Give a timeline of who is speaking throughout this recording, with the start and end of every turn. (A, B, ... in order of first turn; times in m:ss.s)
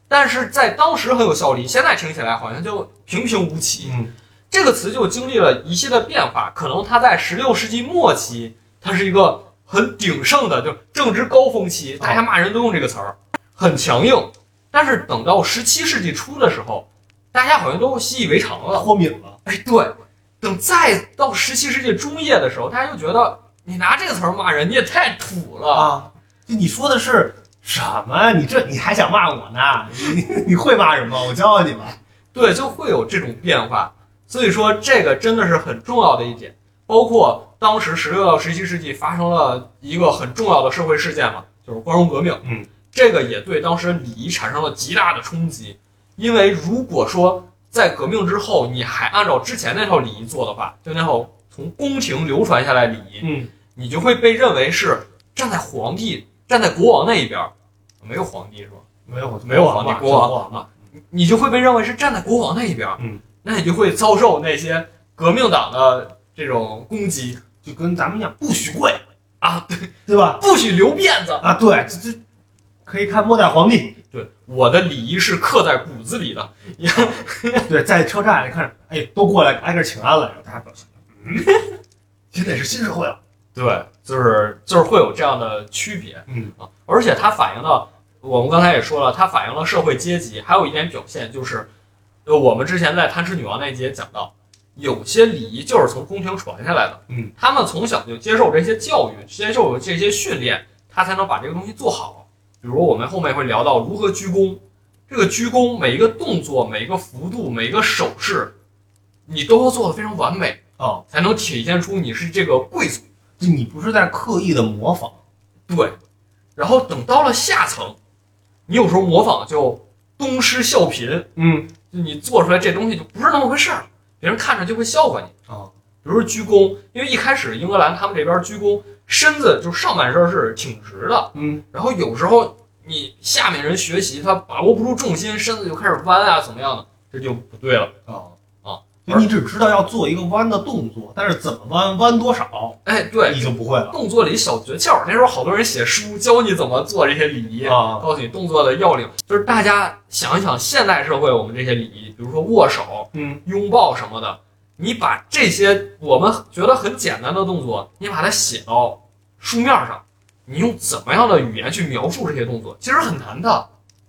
0:00.1-0:04.0 A
0:03.8-0:04.1 B
0:04.5-0:18.9 A
0:18.7-0:19.4 B
0:19.4-0:25.9 A
0:25.7-0:32.0 B
0:32.3-0:58.9 A
0:53.2-0:53.5 B
0:59.1-1:00.7 B
0:59.4-1:07.4 A
1:07.6-1:09.0 B
1:09.4-1:11.5 A
1:10.1-1:10.4 B
1:11.4-1:12.2 B
1:12.9-1:14.0 B
1:14.1-1:17.7 A
1:17.7-1:21.6 B
1:21.4-1:21.7 A
1:22.3-1:23.2 B
1:23.6-1:31.7 A
1:26.3-1:26.6 B
1:32.3-1:48.5 A
1:49.3-1:53.0 A
1:53.4-1:55.2 B
1:55.7-1:56.0 A
1:56.6-1:58.0 A
1:58.7-2:01.3 A
2:01.4-2:01.7 B
2:01.9-2:05.3 A
2:06.0-2:18.0 A
2:11.3-2:11.6 B
2:18.1-2:18.4 B
2:18.6-2:19.3 A
2:19.1-2:24.0 B
2:22.8-2:43.7 A
2:27.6-2:28.1 B
2:33.1-2:33.4 B